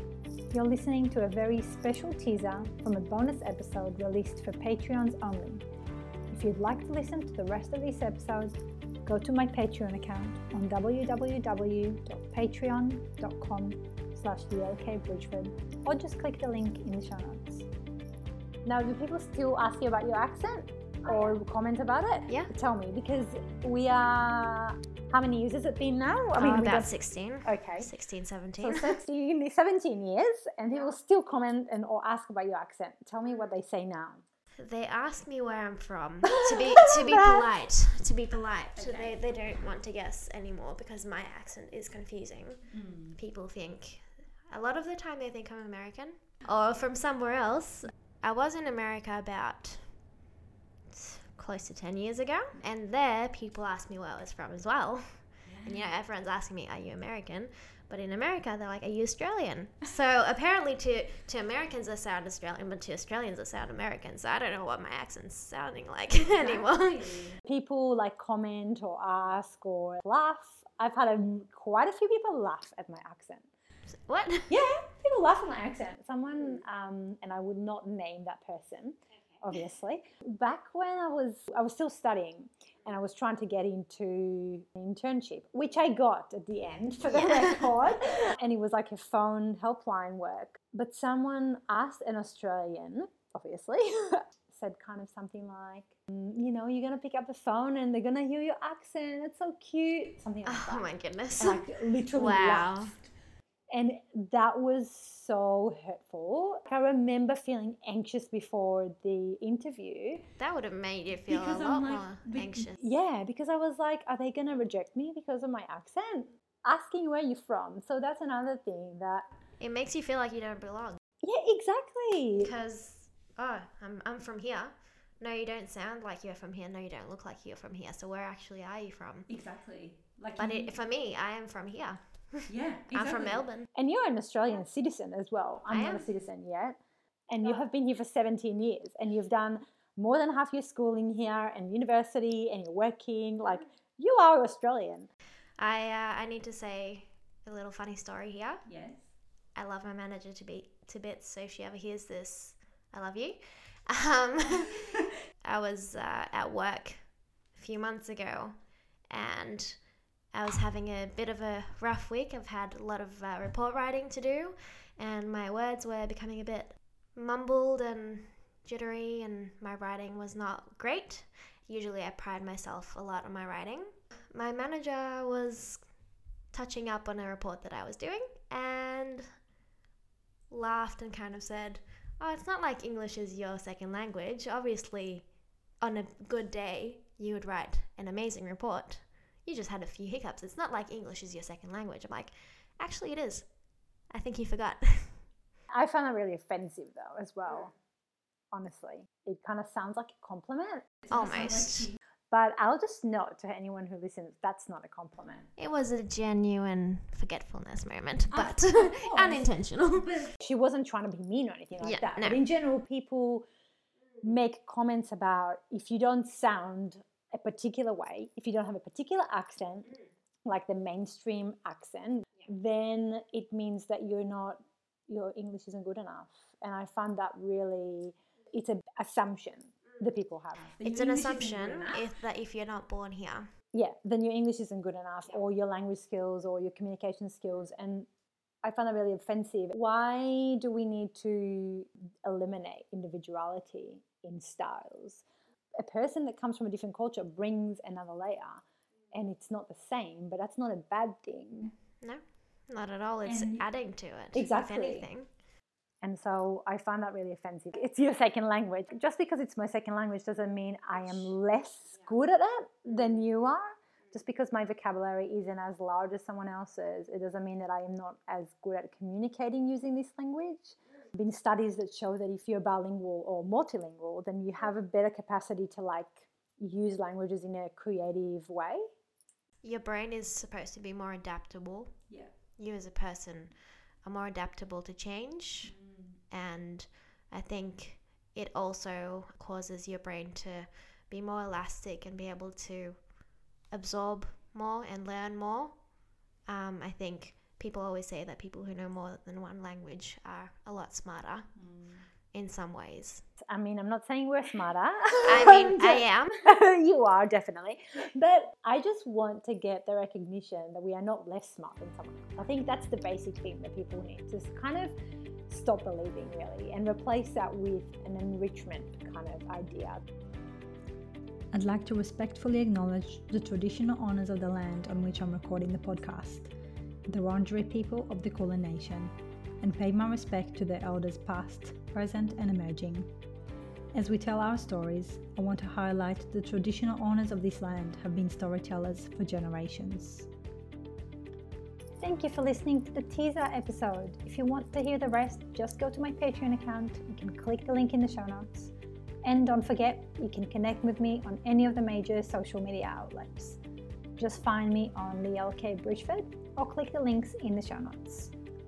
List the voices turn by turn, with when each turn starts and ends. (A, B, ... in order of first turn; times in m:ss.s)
0:00.5-0:05.6 A
0:06.3-0:17.7 A
0:18.6-0:27.9 A
0:26.4-0:29.0 B
0:28.6-0:34.2 A
0:34.6-0:50.1 B
0:36.4-0:37.4 A
0:38.8-0:39.2 C
0:42.7-0:43.2 C
0:50.9-1:07.4 B
0:55.5-0:55.7 C
1:07.4-1:13.5 A
1:14.0-1:14.5 B
1:14.5-1:43.0 A
1:40.4-1:43.0 B
1:43.7-1:50.2 A
1:50.4-1:52.8 B
1:51.3-1:52.6 C
1:52.7-1:59.2 A
1:59.6-2:01.0 B
2:01.2-2:02.5 A
2:02.4-2:09.3 B
2:09.3-2:10.7 C
2:10.4-2:13.7 B
2:12.5-2:13.5 C
2:13.7-2:25.1 A
2:15.7-2:16.1 B
2:25.6-2:28.6 B
2:28.7-2:29.1 C
2:29.5-2:59.5 B
3:00.5-3:15.3 B
3:15.7-3:17.8 A
3:18.5-3:20.9 A
3:21.1-3:21.9 B
3:22.3-3:25.5 A
3:25.6-3:30.3 B
3:28.3-3:29.5 C
3:30.0-3:30.3 C
3:30.4-3:33.4 A
3:31.8-3:32.4 B
3:34.2-3:39.9 A
3:40.4-3:50.8 A
3:50.7-3:52.0 C
3:50.8-3:53.5 B
3:53.7-3:58.1 A
3:58.6-4:05.2 A
4:05.8-4:11.8 A
4:12.0-4:15.4 B
4:13.2-4:13.6 C
4:14.3-4:15.1 A
4:16.0-4:38.8 A
4:39.6-4:45.8 B
4:45.6-4:46.2 C
4:46.3-5:03.2 B
5:01.6-5:02.1 C
5:03.4-5:14.9 A
5:05.3-5:06.4 B
5:15.5-5:20.0 A
5:21.5-5:26.5 C
5:27.1-5:29.1 C
5:29.6-5:33.1 C
5:34.0-5:40.3 C
5:42.0-5:48.7 A
5:49.2-5:53.6 A
5:54.2-5:58.3 A